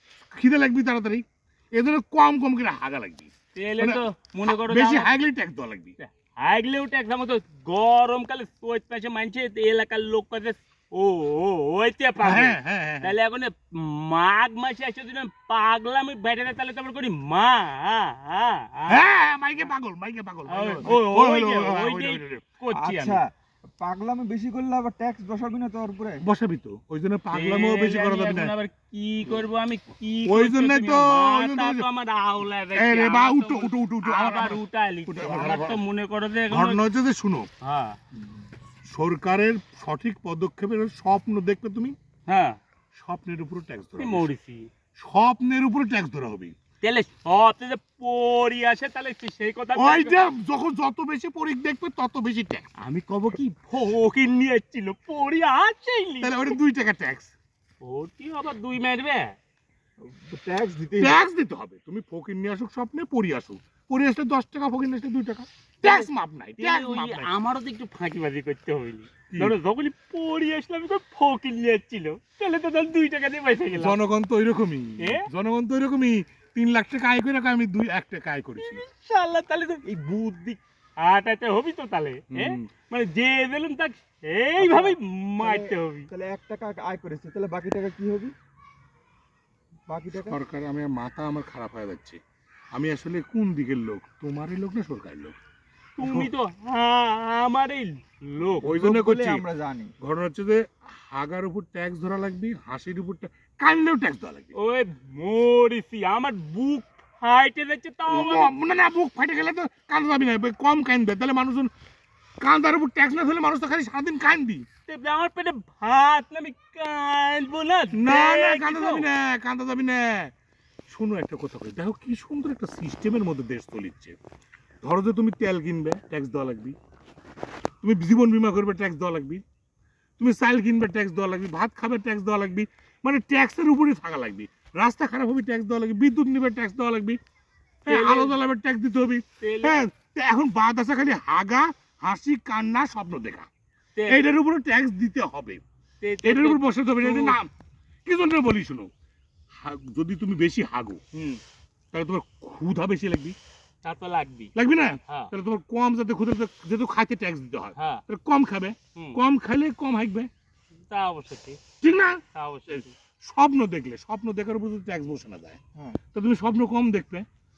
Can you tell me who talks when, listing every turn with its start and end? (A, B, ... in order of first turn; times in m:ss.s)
0:00.3-0:06.0 A
0:03.5-0:05.1 B
0:06.0-0:19.0 B
0:12.2-0:13.2 A
0:18.9-0:22.4 A
0:20.5-0:23.2 B
0:22.7-0:23.3 C
0:23.8-0:26.2 C
0:26.2-0:28.5 A
0:27.3-0:36.8 B
0:30.3-0:31.8 A
0:32.7-0:35.8 A
0:36.5-0:37.5 A
0:37.6-0:38.0 B
0:38.8-0:42.0 A
0:42.3-0:42.6 B
0:42.9-0:44.3 A
0:44.0-0:44.7 B
0:45.0-0:46.5 A
0:46.8-0:50.2 B
0:49.8-0:52.7 A
0:52.8-0:56.5 B
0:56.2-0:57.3 A
0:57.8-0:59.4 B
1:00.0-1:01.2 C
1:01.0-1:07.3 A
1:05.8-1:06.1 B
1:06.6-1:14.0 B
1:09.3-1:09.5 A
1:13.8-1:18.8 A
1:15.0-1:15.2 B
1:18.6-1:19.8 B
1:19.8-1:20.6 C
1:21.0-1:26.1 B
1:22.3-1:22.6 A
1:24.6-1:28.3 C
1:29.9-1:30.4 C
1:30.2-1:32.2 A
1:32.7-1:35.3 A
1:36.0-1:38.7 B
1:36.0-1:36.3 A
1:38.6-1:39.9 C
1:38.6-1:39.4 A
1:40.0-1:44.5 A
1:44.5-1:48.5 B
1:48.1-1:51.7 A
1:52.4-1:54.6 A
1:54.9-1:59.1 B
1:57.9-2:00.3 A
2:00.9-2:04.2 A
2:04.8-2:06.8 A
2:07.8-2:09.4 A
2:10.2-2:17.2 A
2:17.8-2:23.5 A
2:17.9-2:18.4 B
2:19.4-2:19.8 B
2:23.9-2:24.2 B
2:24.1-2:25.6 A
2:26.0-2:27.4 B
2:26.2-2:27.5 A
2:28.0-2:28.9 A
2:29.5-2:31.0 A
2:31.1-2:31.4 B
2:31.9-2:33.4 A
2:33.8-2:34.5 B
2:34.6-2:40.3 A
2:37.7-2:38.0 B
2:40.8-2:41.6 B
2:41.8-2:45.6 A
2:42.3-2:42.9 B
2:46.1-2:47.2 A